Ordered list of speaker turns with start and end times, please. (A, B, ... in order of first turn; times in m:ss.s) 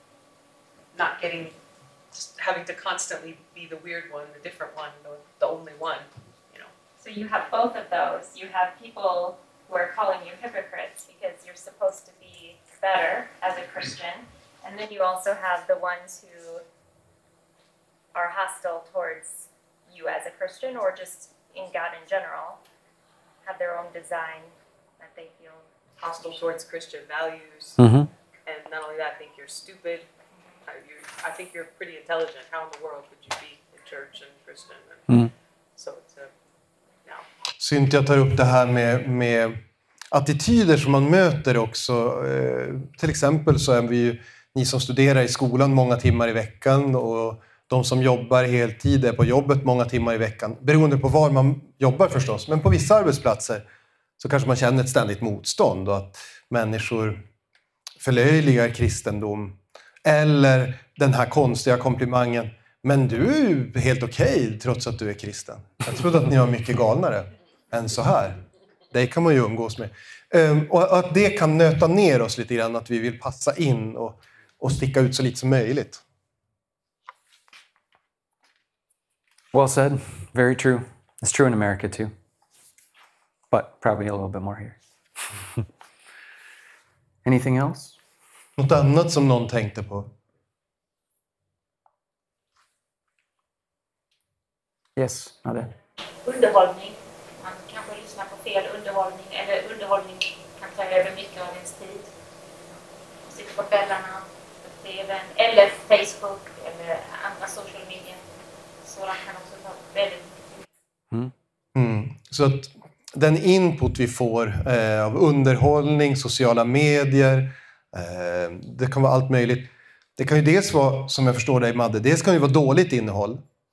0:00.9-0:01.5 A
0:02.1-0:06.7 A
0:07.0-0:16.6 B
0:18.1-0:22.6 B
0:23.4-0:25.7 B
0:26.0-0:27.8 A
0:27.8-0:28.1 C
0:28.5-0:30.1 A
0:30.7-0:35.1 A
0:35.8-0:36.3 A
0:37.6-0:39.6 D
0:40.1-0:53.6 D
0:54.2-0:57.2 D
0:58.0-1:08.4 D
1:08.9-1:16.0 D
1:19.5-1:22.1 C
1:23.5-1:24.8 C
1:27.2-1:28.0 C
1:28.6-1:30.1 D
1:35.0-1:35.7 C
1:36.2-1:42.1 E
1:43.3-1:48.2 E
1:48.8-1:50.6 E
1:51.8-2:03.4 D